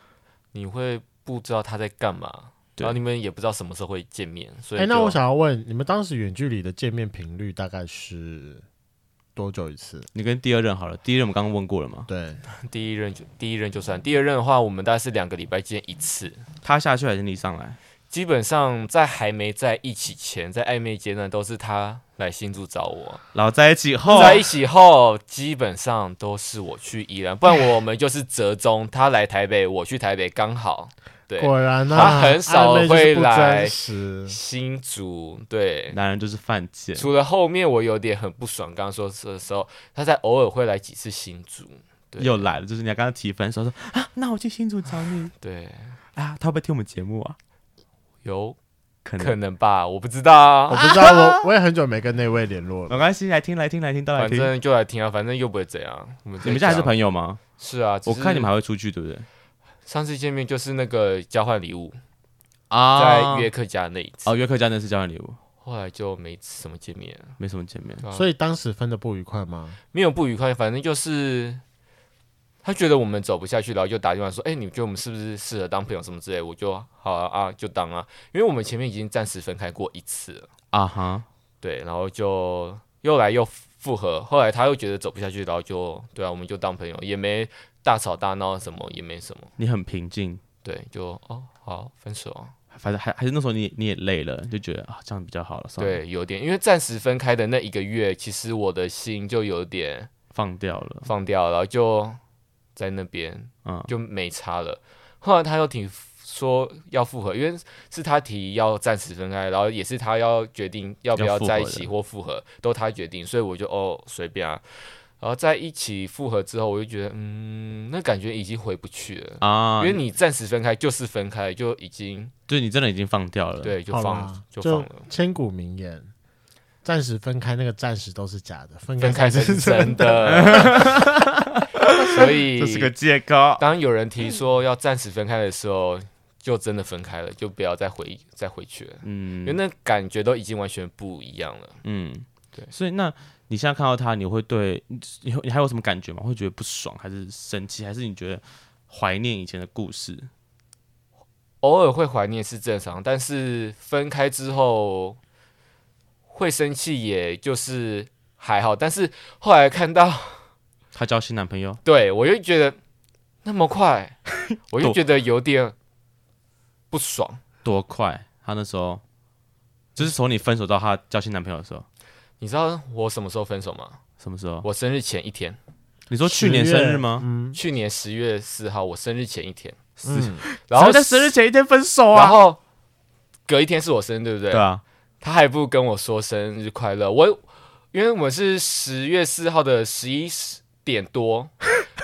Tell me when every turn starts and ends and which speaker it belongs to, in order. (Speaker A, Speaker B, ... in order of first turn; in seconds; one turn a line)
Speaker A: 0.5-5.2
Speaker B: 4.8-8.6
Speaker B: 9.4-10.1
Speaker C: 10.1-12.1
Speaker B: 12.1-12.4
Speaker A: 12.5-16.4
Speaker C: 16.6-17.8
Speaker A: 18.1-23.2
Speaker C: 23.3-24.4
Speaker A: 24.1-36.0
Speaker B: 31.4-34.4
Speaker C: 35.9-37.1
Speaker A: 37.0-42.5
Speaker C: 42.2-45.3
Speaker A: 45.4-46.0
Speaker C: 46.1-47.4
Speaker A: 48.2-48.6
Speaker C: 49.0-49.4
Speaker A: 49.2-51.0
Speaker B: 50.7-53.0
Speaker C: 51.0-51.4
Speaker C: 52.9-54.5
Speaker A: 54.2-56.9
Speaker C: 56.4-57.4
Speaker A: 57.6-58.5
Speaker C: 58.1-59.3
Speaker A: 59.9-62.0
Speaker C: 62.7-63.5
Speaker A: 63.0-64.3
Speaker C: 64.2-65.4
Speaker A: 65.6-67.4
Speaker C: 67.4-68.0
Speaker B: 68.1-69.8
Speaker A: 69.9-71.6
Speaker A: 72.6-80.5
Speaker C: 80.7-81.3
Speaker A: 81.6-89.5
Speaker C: 89.6-90.4
Speaker A: 90.6-92.5
Speaker C: 92.7-96.0
Speaker A: 95.8-100.1
Speaker C: 100.3-101.1
Speaker A: 101.0-102.2
Speaker A: 102.8-122.3
Speaker C: 103.7-103.9
Speaker C: 111.2-111.9
Speaker C: 119.4-120.0
Speaker C: 122.5-123.8
Speaker A: 123.6-125.1
Speaker B: 123.9-126.1
Speaker B: 126.8-130.9
Speaker A: 129.0-130.9
Speaker C: 130.3-133.6
Speaker A: 132.1-132.9
Speaker A: 133.6-141.8
Speaker C: 139.0-139.6
Speaker C: 141.8-150.3
Speaker A: 151.6-155.2
Speaker A: 156.3-160.5
Speaker C: 160.9-161.8
Speaker A: 161.8-162.8
Speaker A: 163.4-165.8
Speaker A: 166.9-167.4
Speaker C: 167.6-169.0
Speaker C: 170.0-171.9
Speaker A: 172.4-174.0
Speaker C: 174.2-174.7
Speaker A: 174.6-175.6
Speaker C: 176.1-177.3
Speaker B: 176.3-177.6
Speaker A: 177.5-180.0
Speaker B: 180.0-180.4
Speaker C: 180.1-182.4
Speaker A: 180.7-181.3
Speaker A: 182.1-182.6
Speaker A: 183.5-184.7
Speaker C: 184.5-184.8
Speaker A: 185.2-191.6